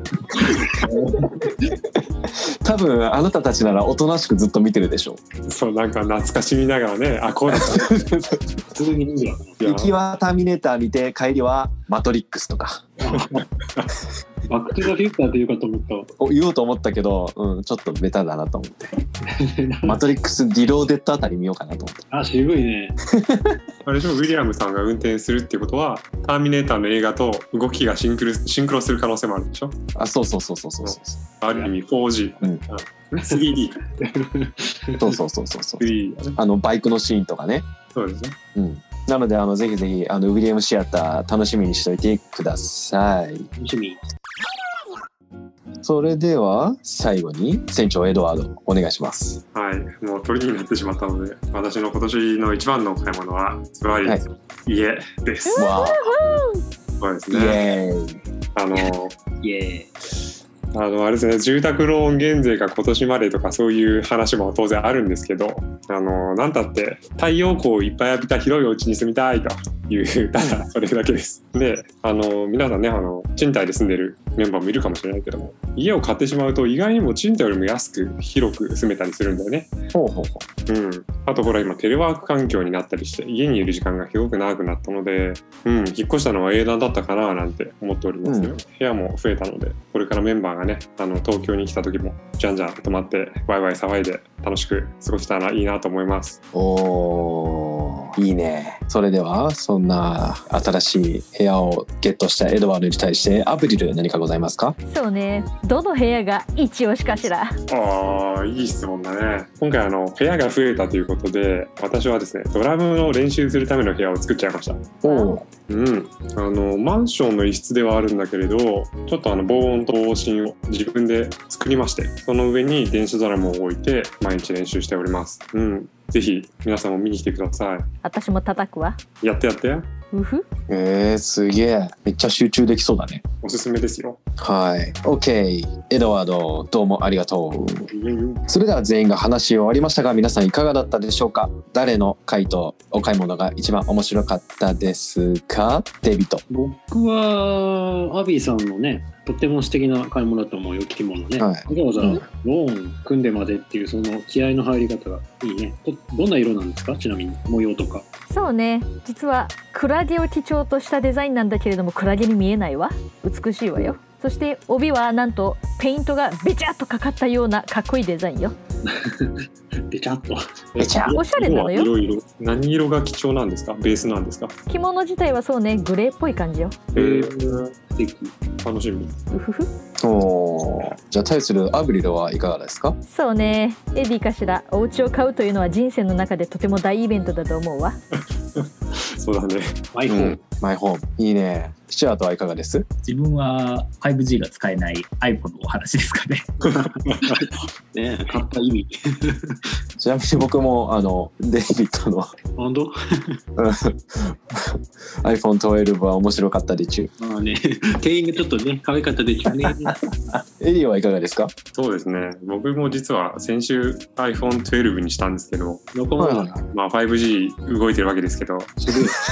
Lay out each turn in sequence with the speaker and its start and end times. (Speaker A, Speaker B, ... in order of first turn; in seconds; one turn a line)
Speaker A: 0.3-1.1
Speaker B: 2.6-5.2
Speaker A: 5.5-8.0
Speaker B: 7.5-8.6
Speaker C: 8.8-9.6
Speaker A: 9.6-9.9
Speaker B: 9.6-13.0
Speaker C: 13.0-13.4
Speaker C: 14.5-16.1
Speaker B: 16.2-18.9
Speaker C: 19.3-20.0
Speaker B: 19.8-22.0
Speaker C: 22.1-22.9
Speaker B: 23.1-23.6
Speaker A: 23.9-29.8
Speaker B: 29.9-31.2
Speaker A: 30.8-33.9
Speaker C: 31.5-31.7
Speaker C: 34.0-35.2
Speaker B: 35.0-35.8
Speaker A: 35.8-36.4
Speaker B: 36.4-37.7
Speaker A: 37.9-38.3
Speaker B: 38.5-43.5
Speaker C: 43.6-44.0
Speaker B: 45.8-49.4
Speaker A: 49.5-55.7
Speaker D: 55.5-56.6
Speaker B: 55.5-56.1
Speaker A: 57.0-57.6
Speaker B: 57.3-58.2
Speaker A: 58.5-59.2
Speaker C: 59.4-59.9
Speaker A: 60.7-79.7
Speaker B: 79.9-80.4
Speaker A: 80.7-96.4
Speaker B: 88.2-88.6
Speaker B: 96.5-104.8
Speaker D: 104.8-107.5
Speaker A: 107.7-114.9
Speaker B: 115.0-115.4
Speaker D: 115.0-115.3
Speaker A: 115.7-127.8
Speaker D: 128.0-129.0
Speaker A: 129.2-129.9
Speaker D: 130.1-130.4
Speaker B: 130.7-133.2
Speaker A: 133.4-134.2
Speaker B: 134.4-137.9
Speaker A: 137.9-138.4
Speaker B: 138.5-146.4
Speaker C: 146.5-158.0
Speaker B: 151.4-152.2
Speaker D: 158.3-168.6
Speaker C: 168.8-170.4
Speaker A: 170.8-174.5
Speaker B: 170.8-171.2
Speaker D: 171.1-171.9
Speaker D: 174.7-176.8
Speaker A: 176.9-177.7
Speaker C: 176.9-178.3
Speaker A: 178.6-179.2
Speaker D: 179.3-179.7
Speaker B: 180.0-183.0
Speaker D: 183.1-188.0
Speaker A: 188.2-189.8
Speaker C: 189.9-190.3
Speaker B: 190.1-192.8
Speaker E: 193.0-196.5
Speaker C: 196.6-199.6
Speaker B: 200.0-202.3
Speaker C: 202.6-202.9
Speaker B: 203.6-207.1
Speaker C: 207.2-209.9
Speaker B: 209.6-209.9
Speaker B: 210.6-211.5
Speaker A: 211.7-215.8
Speaker C: 215.9-216.6
Speaker B: 216.2-216.6
Speaker A: 216.7-218.8
Speaker C: 218.8-219.1